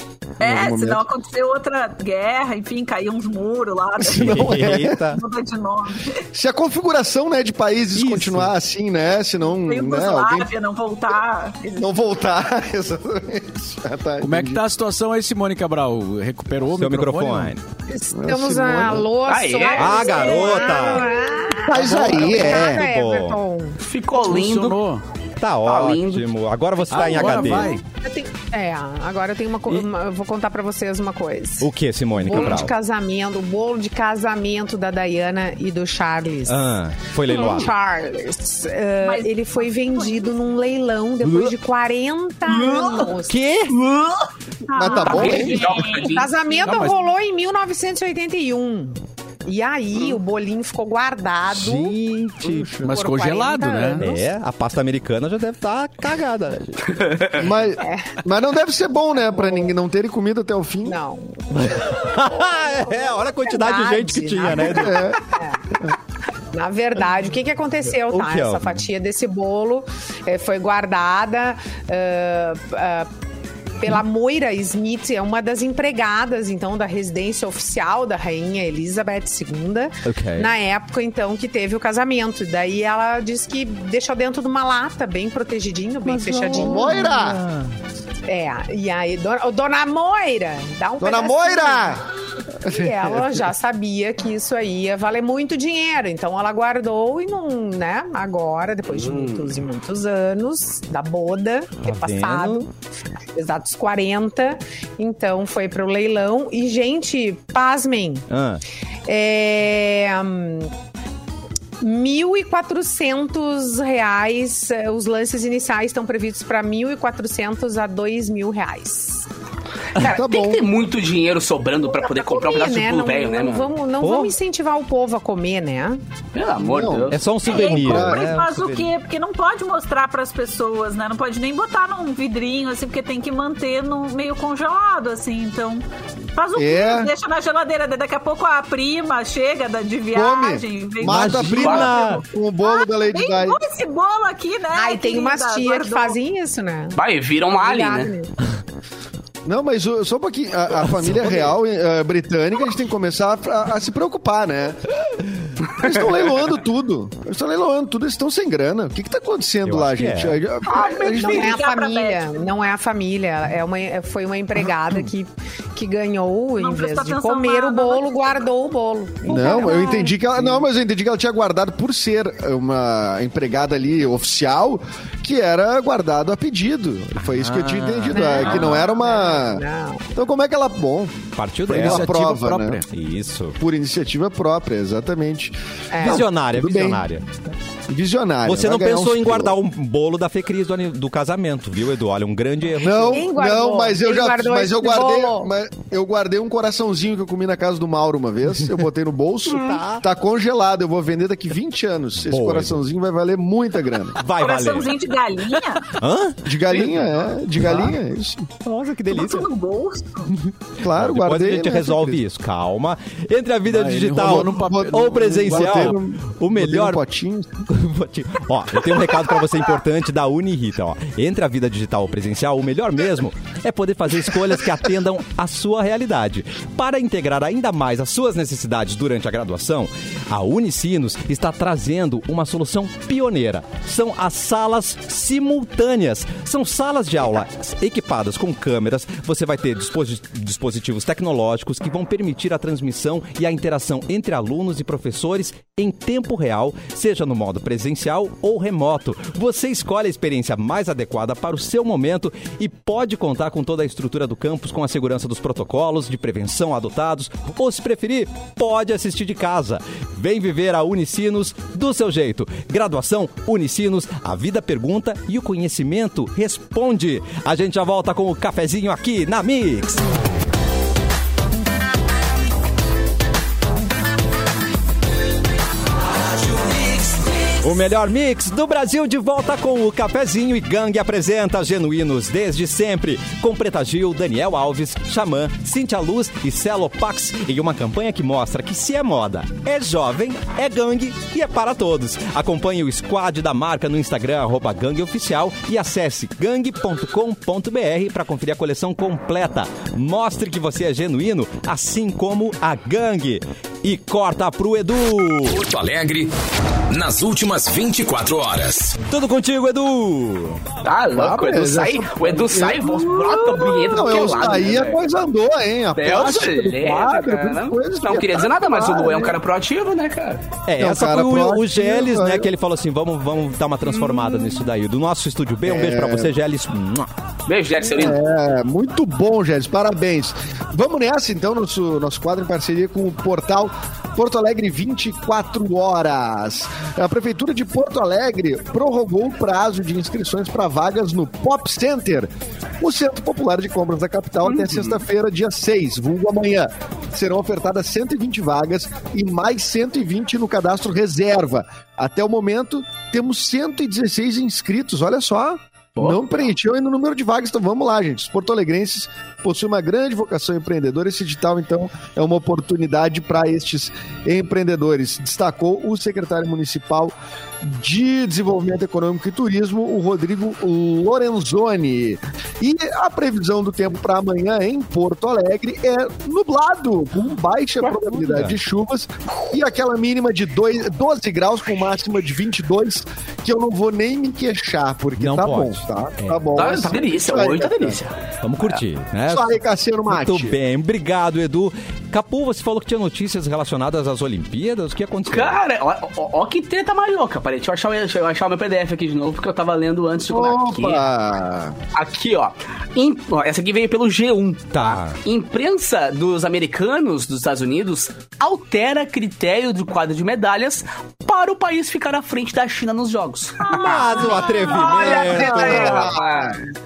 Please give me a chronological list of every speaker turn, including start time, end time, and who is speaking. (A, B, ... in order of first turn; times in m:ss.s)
0:00.4-0:01.0 A
0:00.4-0:04.6 B
0:04.0-0:05.1 A
0:04.1-0:05.2 C
0:05.1-0:06.2 B
0:06.3-0:10.5 A
0:07.9-0:08.5 C
0:09.6-0:11.8 B
0:11.6-0:14.6 A
0:14.2-0:17.5 D
0:16.8-0:17.6 C
0:17.9-0:23.8 E
0:18.1-0:19.1 A
0:19.3-0:20.1 F
0:19.8-0:21.1 C
0:20.0-0:21.1 B
0:21.6-0:22.9 A
0:21.8-0:22.5 D
0:22.3-0:23.4 C
0:23.8-0:24.8 F
0:24.2-0:25.0 D
0:25.4-0:27.8 C
0:25.6-0:26.3 F
0:26.9-0:27.8 D
0:27.1-0:36.7 E
0:31.6-0:32.7 C
0:32.4-0:32.7 F
0:36.5-0:37.7 C
0:37.2-0:43.4 E
0:39.0-0:40.4 B
0:41.2-0:41.5 C
0:42.5-0:43.1 F
0:43.3-0:43.8 C
0:43.7-0:44.3 F
0:44.7-0:46.3 B
0:44.7-0:45.6 A
0:45.0-0:46.3 F
0:45.0-0:52.0 E
0:46.6-0:47.1 D
0:51.5-0:52.8 C
0:52.4-0:52.9 A
0:52.8-0:54.1 D
0:52.8-0:54.3 E
0:54.0-0:56.9 C
0:56.9-0:57.4 F
0:57.4-1:01.0 A
0:57.8-0:58.2 E
0:59.2-0:59.7 E
1:00.8-1:05.8 E
1:01.5-1:05.2 C
1:04.6-1:05.2 A
1:06.5-1:13.1 E
1:08.1-1:08.8 C
1:13.8-1:27.2 E
1:20.1-1:20.5 C
1:26.0-1:27.7 C
1:26.5-1:27.4 A
1:28.3-1:32.0 E
1:31.0-1:32.0 A
1:32.6-1:33.4 A
1:32.6-1:42.7 E
1:38.9-1:39.5 F
1:41.8-1:42.6 C
1:43.4-1:48.3 E
1:48.3-1:48.6 C
1:49.1-1:50.7 E
1:51.8-1:59.3 E
2:00.0-2:03.7 F
2:00.0-2:00.7 A
2:01.8-2:06.0 E
2:04.0-2:04.4 C
2:06.3-2:07.2 F
2:06.6-2:08.3 A
2:07.1-2:08.9 C
2:07.5-2:26.2 B
2:16.6-2:17.1 A
2:20.1-2:23.6 A
2:21.0-2:22.2 C
2:21.5-2:21.9 F
2:24.7-2:27.0 E
2:27.0-2:28.1 F
2:27.5-2:28.3 E
2:29.4-2:34.8 A
2:30.8-2:31.5 C
2:35.6-2:41.5 A
2:39.6-2:40.4 C
2:40.6-2:41.6 F
2:41.1-2:50.2 E
2:41.2-2:42.6 B
2:46.6-2:48.4 B
2:49.3-2:59.6 A
2:57.2-2:58.9 C
2:58.1-3:00.1 E
3:00.1-3:02.8 A
3:01.4-3:02.2 C
3:01.7-3:02.9 D
3:02.9-3:03.6 C
3:03.6-3:07.1 A
3:05.9-3:06.3 E
3:06.0-3:07.2 C
3:07.9-3:09.6 A
3:08.4-3:13.3 C
3:12.8-3:24.2 A
3:13.1-3:15.5 E
3:19.5-3:20.0 C
3:22.3-3:22.8 C
3:24.2-3:24.9 C
3:24.4-3:25.9 B
3:26.0-3:26.5 C
3:26.4-3:28.5 A
3:28.6-3:29.5 C
3:29.1-3:30.3 B
3:30.4-3:37.0 C
3:30.8-3:32.2 A
3:33.7-3:36.0 D
3:34.2-3:37.6 A
3:37.7-4:30.1 C
4:36.7-5:05.6 C
5:05.5-5:06.3 G
5:06.9-5:09.0 G
5:09.0-5:10.6 C
5:10.8-5:15.0 F
5:11.2-5:19.4 A
5:16.0-5:20.4 F
5:20.7-5:27.1 C
5:20.8-5:22.5 A
5:25.6-5:26.3 A
5:27.5-5:28.2 F
5:27.9-6:28.0 A
5:44.4-5:45.0 F
5:56.0-5:56.2 F
6:18.2-6:18.6 C
6:25.2-6:26.6 C
6:26.6-6:28.2 F
6:28.4-6:29.5 C
6:29.3-6:30.6 A
6:30.1-6:35.6 C
6:35.3-6:41.1 F
6:40.3-6:41.8 A
6:41.9-6:56.6 F
6:44.7-6:45.2 C
6:53.7-6:56.1 C
6:53.8-6:55.5 B
6:54.6-6:55.4 E
6:55.1-6:56.6 A